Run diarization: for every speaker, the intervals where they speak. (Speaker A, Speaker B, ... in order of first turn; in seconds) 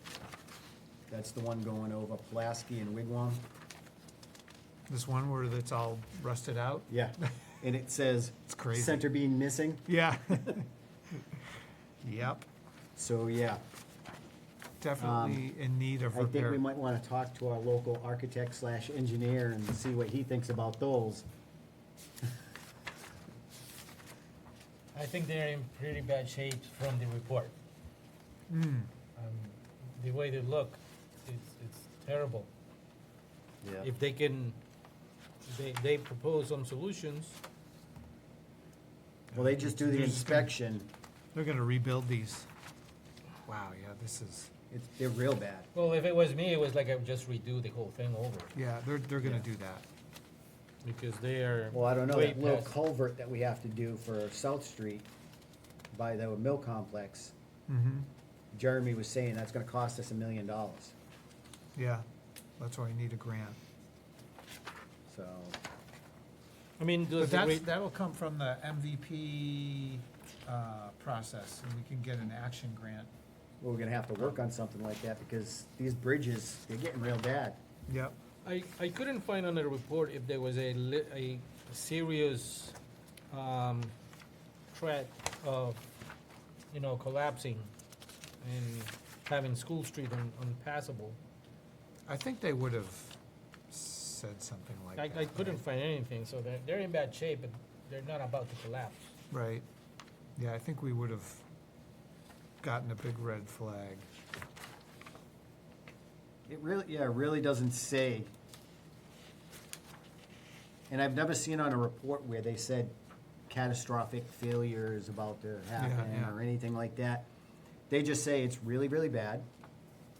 Speaker A: 1.1-3.4, 6.9-9.8, 12.9-13.6, 15.0-15.4, 16.1-21.2, 33.6-33.9, 39.3-40.9, 44.7-45.7, 51.7-55.1, 55.9-57.3, 58.5-60.9, 65.1-65.6, 73.6-77.6, 106.5-108.3, 110.9-113.0, 113.5-117.3, 117.9-119.5
Speaker B: 4.9-7.2, 8.5-9.0, 9.8-11.4, 12.0-12.4, 14.8-16.6, 28.5-28.9, 39.3-40.5, 41.3-42.5, 43.5-44.5, 48.5-49.8, 57.7-58.1, 61.8-62.0, 62.6-63.6, 67.2-73.1, 77.9-78.1, 92.0-93.2, 93.7-95.6, 99.3-99.7, 100.3-101.4, 102.6-104.1, 115.8-116.3
Speaker C: 24.9-27.5, 29.1-32.5, 33.8-34.6, 35.4-37.4, 45.7-48.5, 50.8-52.7, 66.8-67.7, 78.4-82.8, 83.3-83.9, 84.7-85.8, 86.7-87.7, 88.4-91.2, 95.0-99.0